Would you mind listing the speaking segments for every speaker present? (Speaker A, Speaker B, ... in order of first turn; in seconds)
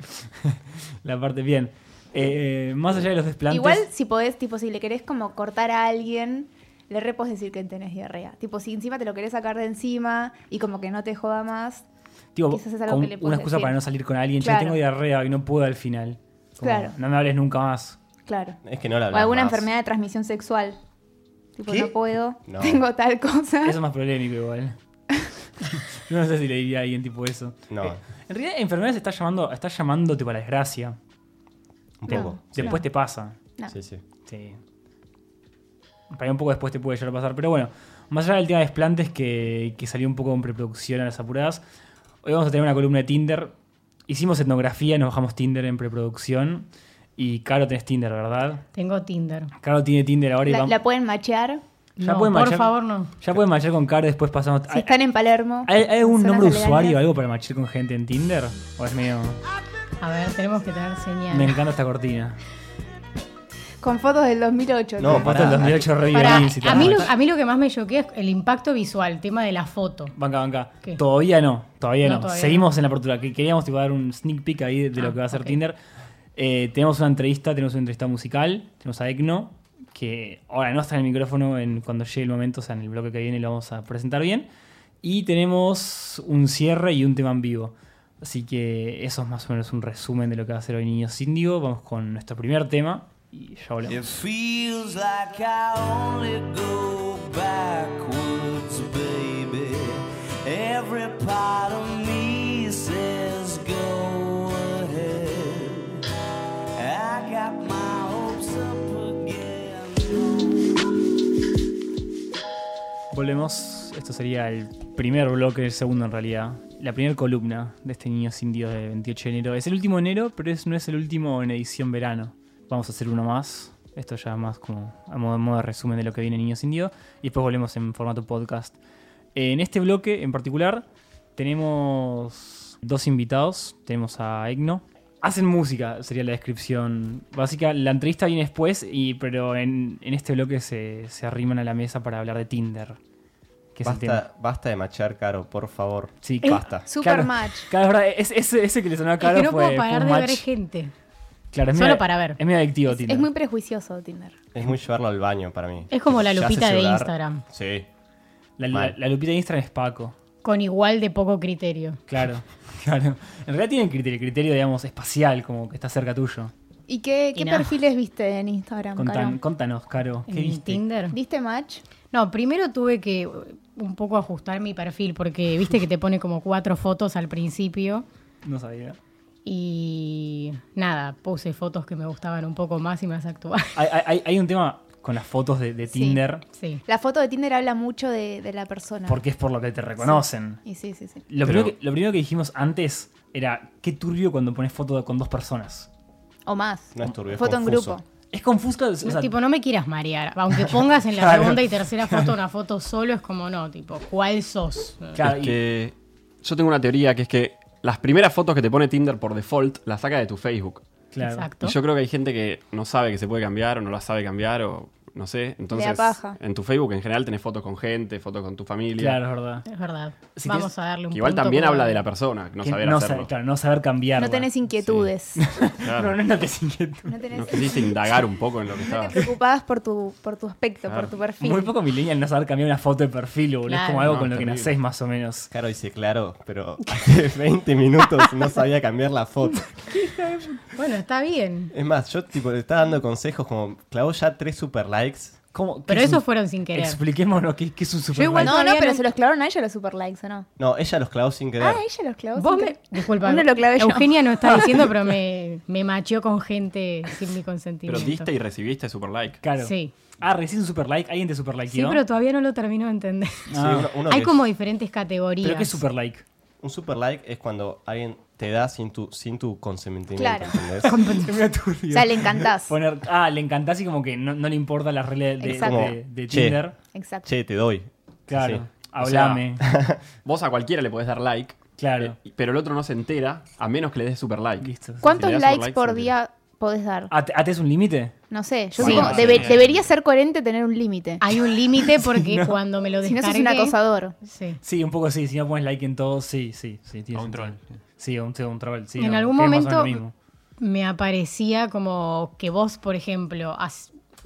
Speaker A: 0.4-3.9, 12.4-18.0, 23.6-24.8, 26.1-31.0, 32.2-33.4, 34.3-34.6, 36.1-41.6, 42.2-43.5, 44.1-46.7, 47.2-48.6, 49.6-50.8, 52.0-54.9, 55.6-59.4, 61.3-62.4, 65.0-67.1, 70.2-75.8, 76.4-84.5, 85.0-94.0, 113.1-128.8, 129.3-130.8, 131.4-143.0, 143.8-144.2, 146.2-150.5, 151.5-153.3, 158.6-160.2, 162.1-166.5, 169.0-170.8, 178.4-179.0, 183.8-186.4, 189.1-190.6, 191.3-195.9, 198.3-199.3, 201.1-202.3, 205.2-205.6, 211.1-211.5, 219.0-219.7, 220.4-220.7, 222.6-224.5, 225.4-227.2, 231.4-235.5, 239.8-240.7, 245.5-248.6, 259.4-262.0, 263.5-263.9, 265.4-266.2, 271.0-276.8, 278.3-279.6, 281.8-282.2, 284.6-285.2, 287.1-288.1, 288.8-289.6, 291.9-292.6, 294.6-300.1
Speaker B: 3.5-11.8, 12.5-13.8, 14.4-14.8, 16.6-17.0, 18.3-18.6, 19.1-20.8, 21.6-23.8, 32.1-32.8, 50.5-51.6, 54.7-57.0, 63.8-65.9, 146.9-147.7, 152.9-154.4, 166.9-169.4, 171.1-171.8, 186.9-189.2, 190.0-191.2, 196.5-198.0, 215.7-216.4, 224.2-225.4, 227.1-231.7, 248.4-250.5, 251.6-254.8, 270.2-270.7, 271.9-272.8, 275.4-276.0, 276.9-277.3, 285.0-287.1, 288.3-291.2, 293.0-294.2
Speaker C: 18.6-19.7, 22.5-22.8, 27.7-28.0, 32.0-32.8, 33.7-34.0, 65.0-65.9, 143.8-146.9, 154.5-157.9, 196.9-198.0, 235.5-239.9, 241.7-245.4, 250.6-251.8, 263.5-264.4, 266.6-270.9, 275.5-276.6, 277.2-278.6, 279.6-280.0
Speaker D: 48.8-49.5, 52.0-53.1, 60.0-61.6, 66.1-70.1, 72.0-72.7, 75.0-75.6, 149.2-150.9, 151.7-152.4, 155.9-157.4, 160.4-162.0, 167.3-167.7, 170.3-171.2, 172.1-178.1, 179.5-183.8, 185.9-186.8, 199.1-205.2, 211.2-211.8, 219.7-222.0, 233.7-234.2, 240.7-241.7, 245.9-247.0, 248.1-249.0, 252.4-258.3, 259.6-259.9, 261.7-263.5, 264.1-265.8, 270.9-271.3, 291.2-294.6, 299.0-300.0, 300.6-303.9
Speaker E: 93.9-106.0, 106.8-110.7
Speaker F: 191.4-191.7, 205.2-210.8, 211.6-219.2, 221.1-223.3, 224.8-225.1, 225.8-226.2, 227.3-229.2, 230.9-231.1, 234.1-234.7, 257.9-259.4, 279.0-279.4, 280.2-286.1, 288.8-289.9, 297.2-297.5